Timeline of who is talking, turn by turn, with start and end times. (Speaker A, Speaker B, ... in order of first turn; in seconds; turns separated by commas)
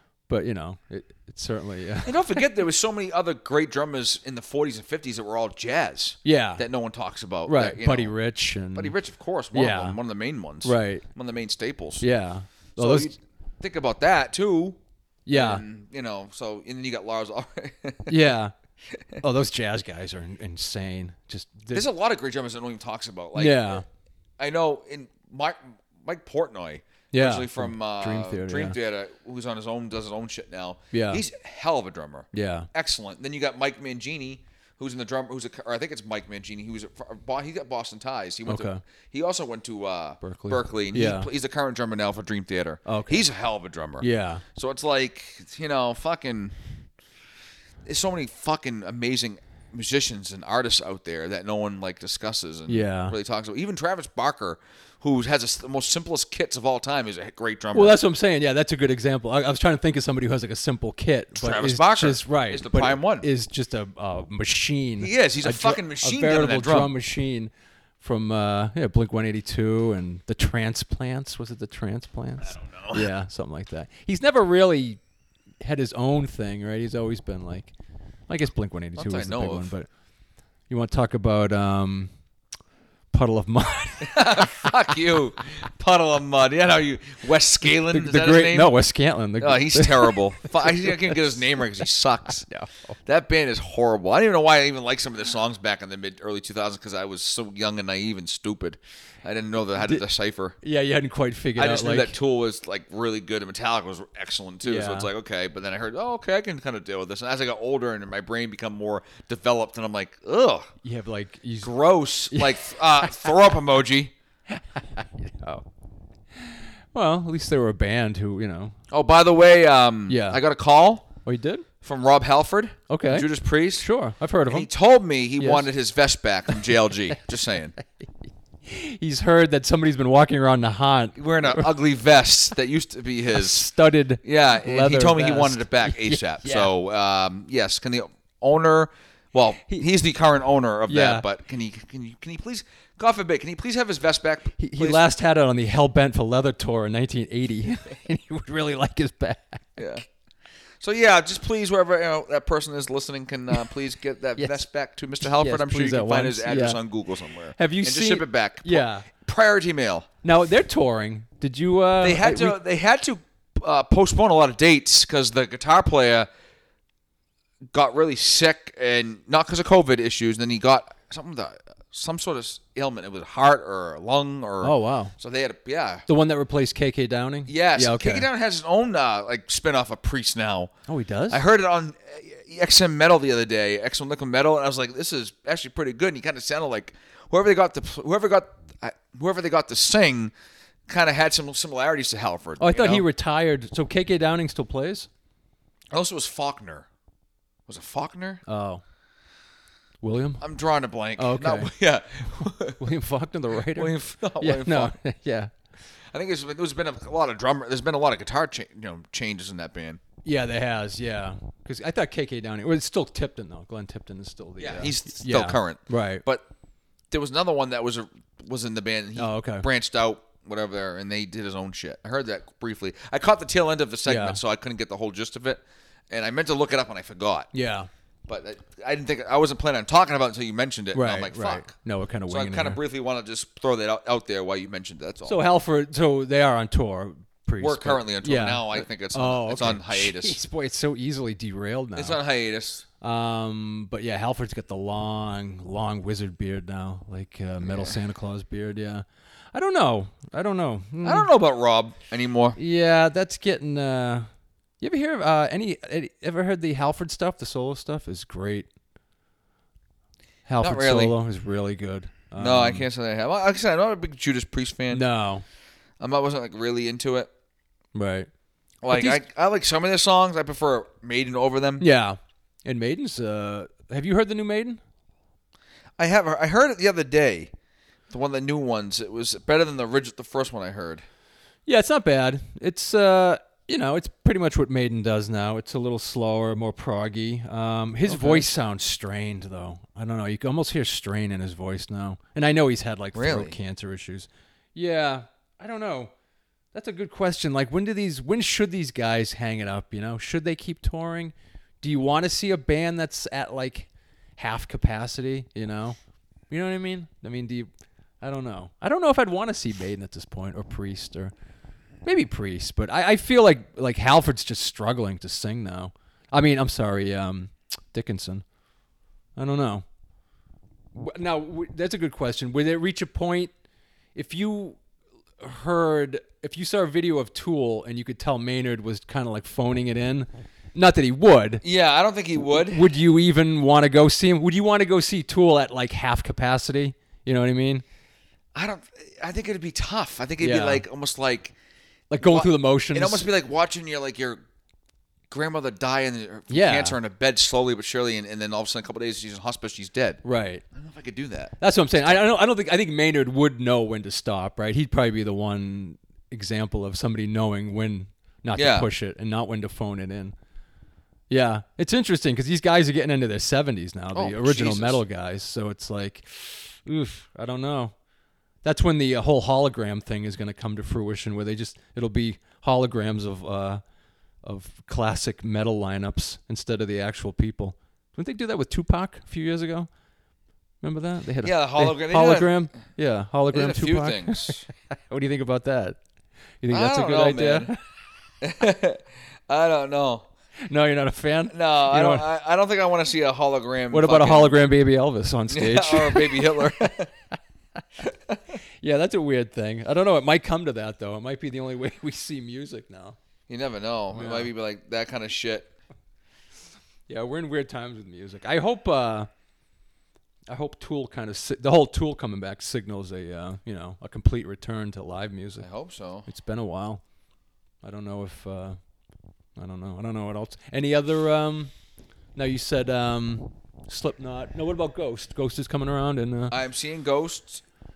Speaker A: 0.3-2.4, Speaker B: 2.0-8.1, Speaker A: 6.2-6.6, Speaker A: 7.5-8.9, Speaker B: 8.7-12.0, Speaker A: 9.5-10.0, Speaker A: 10.6-11.0, Speaker A: 12.0-13.1, Speaker B: 12.8-14.8, Speaker A: 15.2-15.6, Speaker B: 15.3-18.2, Speaker A: 18.1-18.5, Speaker A: 19.2-21.8, Speaker B: 21.7-23.8, Speaker A: 23.3-23.8, Speaker B: 24.4-46.8, Speaker A: 27.1-28.8, Speaker A: 30.9-31.2, Speaker A: 32.3-32.7, Speaker A: 38.5-38.8, Speaker A: 40.2-41.3, Speaker A: 42.9-43.2, Speaker A: 44.0-44.4, Speaker B: 47.8-58.0, Speaker A: 52.7-53.1, Speaker A: 57.7-75.0, Speaker B: 61.4-63.3, Speaker B: 65.0-66.9, Speaker B: 72.4-73.1, Speaker A: 75.6-77.7, Speaker A: 78.3-79.9, Speaker B: 79.0-79.7, Speaker A: 80.7-82.1, Speaker A: 83.1-84.7, Speaker B: 84.0-88.7, Speaker A: 87.9-91.2, Speaker B: 89.4-92.5, Speaker A: 92.5-93.0, Speaker B: 93.0-100.5, Speaker A: 100.6-102.2, Speaker B: 101.6-110.7, Speaker A: 104.6-105.1, Speaker A: 110.8-111.7, Speaker B: 111.6-114.1, Speaker A: 112.3-112.6, Speaker A: 114.5-115.6, Speaker A: 116.5-118.8, Speaker B: 118.9-121.1, Speaker A: 120.1-120.4, Speaker A: 121.2-121.7, Speaker B: 121.8-123.8, Speaker A: 122.9-124.7, Speaker B: 124.5-127.8, Speaker A: 125.4-125.7, Speaker A: 128.7-131.7, Speaker B: 131.2-133.7, Speaker A: 133.3-136.7, Speaker B: 134.2-145.0, Speaker A: 140.9-141.2, Speaker A: 144.6-149.8, Speaker B: 149.8-150.0, Speaker B: 150.8-160.1, Speaker A: 155.2-156.8, Speaker A: 157.5-159.1, Speaker A: 160.2-162.6, Speaker B: 162.0-166.3, Speaker B: 167.7-176.1, Speaker A: 174.6-175.1, Speaker A: 176.1-178.3, Speaker B: 177.5-180.7, Speaker A: 180.9-181.4, Speaker B: 181.3-190.3, Speaker B: 190.9-193.0, Speaker A: 192.6-195.1, Speaker B: 195.9-196.9, Speaker B: 197.7-198.4, Speaker A: 198.4-198.8, Speaker A: 200.0-200.4, Speaker B: 200.4-202.9, Speaker A: 201.2-201.7, Speaker A: 202.8-205.5, Speaker B: 203.7-204.9, Speaker B: 206.1-210.0, Speaker A: 210.2-216.2, Speaker B: 214.6-216.4, Speaker B: 217.1-227.5, Speaker A: 219.2-219.7, Speaker A: 224.1-224.4, Speaker A: 227.5-227.9, Speaker B: 228.3-231.7, Speaker A: 230.9-232.8, Speaker B: 232.3-235.4, Speaker A: 235.2-242.2, Speaker B: 237.6-240.4, Speaker B: 241.9-242.8, Speaker A: 243.0-251.3, Speaker B: 247.6-248.0, Speaker B: 251.0-252.6, Speaker A: 252.6-254.3, Speaker A: 254.8-258.7, Speaker A: 260.5-262.9, Speaker B: 260.6-261.1, Speaker B: 262.4-265.0, Speaker A: 264.9-265.4, Speaker B: 266.0-267.3, Speaker A: 267.9-268.3, Speaker B: 268.8-271.8, Speaker A: 268.9-269.2, Speaker A: 271.8-274.8, Speaker B: 276.0-277.5, Speaker B: 278.1-281.0, Speaker A: 281.6-296.1, Speaker B: 288.1-288.5, Speaker B: 293.1-293.6, Speaker A: 296.7-306.0, Speaker A: 306.5-307.7, Speaker A: 308.2-311.3, Speaker A: 312.0-318.4, Speaker A: 319.4-319.8, Speaker A: 320.9-323.5, Speaker A: 324.1-324.8, Speaker A: 325.4-331.6, Speaker B: 331.6-332.9, Speaker A: 332.5-337.8, Speaker B: 338.5-341.5, Speaker A: 340.4-340.8, Speaker A: 342.1-343.3, Speaker B: 342.2-344.4, Speaker B: 345.3-350.2, Speaker A: 346.5-347.0, Speaker A: 350.2-350.6, Speaker B: 350.7-351.5, Speaker A: 351.6-360.3, Speaker B: 358.5-358.9, Speaker A: 361.3-367.9, Speaker B: 364.1-365.0, Speaker A: 368.6-373.8, Speaker A: 374.4-379.9, Speaker A: 380.8-386.0, Speaker B: 381.4-382.6, Speaker B: 383.5-384.6, Speaker A: 386.6-387.8, Speaker B: 386.7-387.7, Speaker B: 388.4-390.3, Speaker A: 390.7-392.2, Speaker B: 391.5-394.6, Speaker A: 393.9-396.6, Speaker B: 395.5-397.1, Speaker B: 398.0-398.6, Speaker A: 398.8-403.1, Speaker B: 403.5-405.7, Speaker A: 404.1-404.5, Speaker A: 407.1-409.3, Speaker A: 410.5-415.7, Speaker B: 415.6-416.2, Speaker A: 416.2-417.0, Speaker A: 417.8-418.8, Speaker A: 419.6-421.7, Speaker A: 422.3-426.6, Speaker B: 426.5-427.6